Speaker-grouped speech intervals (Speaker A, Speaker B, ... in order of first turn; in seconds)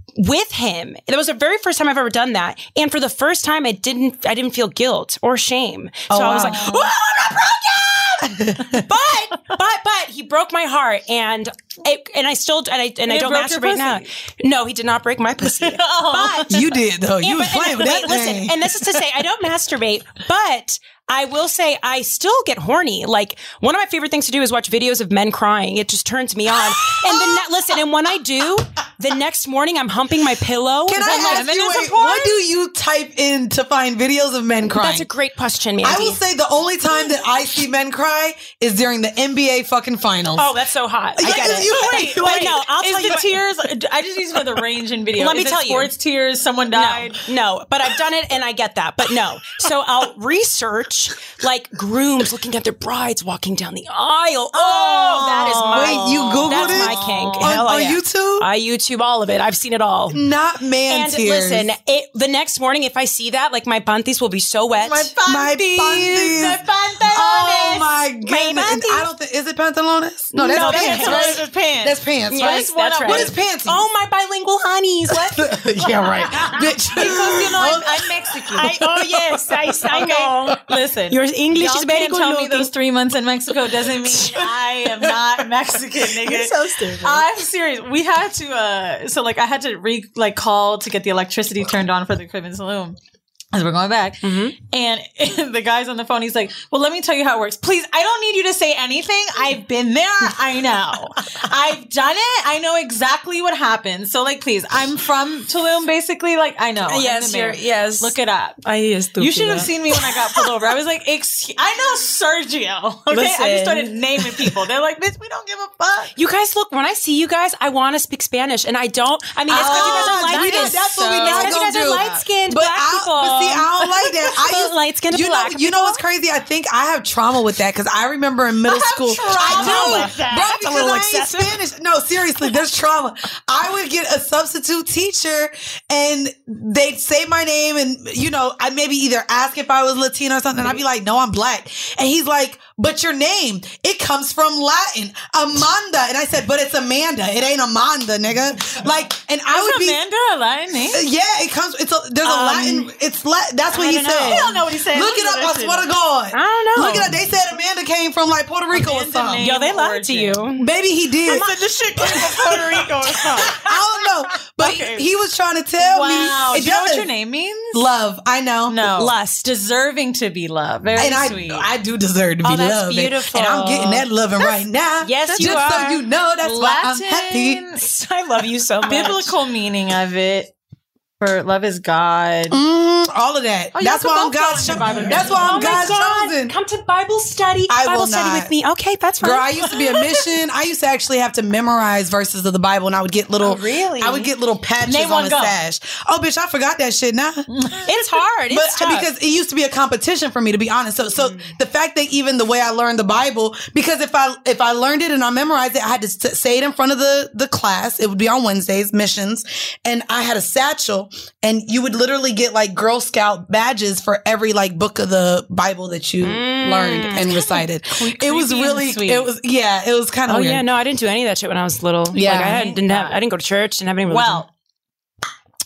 Speaker A: 0.2-16.5, 17.2-31.4, 34.7-36.2, 40.4-43.3, 45.2-45.9, 46.7-60.2, 60.9-65.1, 68.2-69.1, 70.3-71.4, 72.3-75.5, 76.9-77.8, 78.5-82.7, 86.2-87.2, 94.2-94.5, 106.9-110.1, 113.1-114.0, 116.2-126.0, 129.4-131.6, 152.2-152.8, 153.7-154.5, 156.3-157.1, 159.4-160.7, 161.3-163.6, 169.0-169.5, 172.4-174.1, 175.0-176.0, 177.8-179.3, 184.6-189.5, 193.4-194.3, 197.9-199.1, 201.2-201.5, 216.2-217.5, 220.3-224.4
Speaker B: 6.1-6.8, 8.2-8.8, 16.5-18.7, 26.9-27.4, 30.9-35.1, 35.8-40.5, 41.2-42.5, 55.7-58.5, 60.1-61.7, 65.2-73.8, 75.1-78.9, 119.5-150.0, 150.9-159.4, 160.6-162.7, 163.4-167.1, 167.7-168.9, 170.9-177.6, 182.5-186.6, 187.7-188.5, 189.2-197.5, 198.5-220.6, 222.1-222.7
Speaker C: 6.4-6.8, 13.1-14.1, 15.4-16.6, 31.0-32.4, 41.3-47.2, 54.5-57.5, 64.8-67.9, 70.5-73.3, 76.9-78.8, 79.8-93.0, 93.5-108.6, 109.2-116.1, 119.5-122.2, 128.7-130.6, 149.5-151.0, 154.2-155.8, 158.7-160.4, 161.2-163.6, 164.6-165.1, 165.8-167.8, 168.7-171.7, 175.3-175.8, 176.4-177.8, 178.8-180.5, 181.2-182.6, 183.8-185.8, 189.7-190.2, 194.8-195.6, 197.5-197.9, 217.9-219.3, 222.2-223.2, 224.1-224.5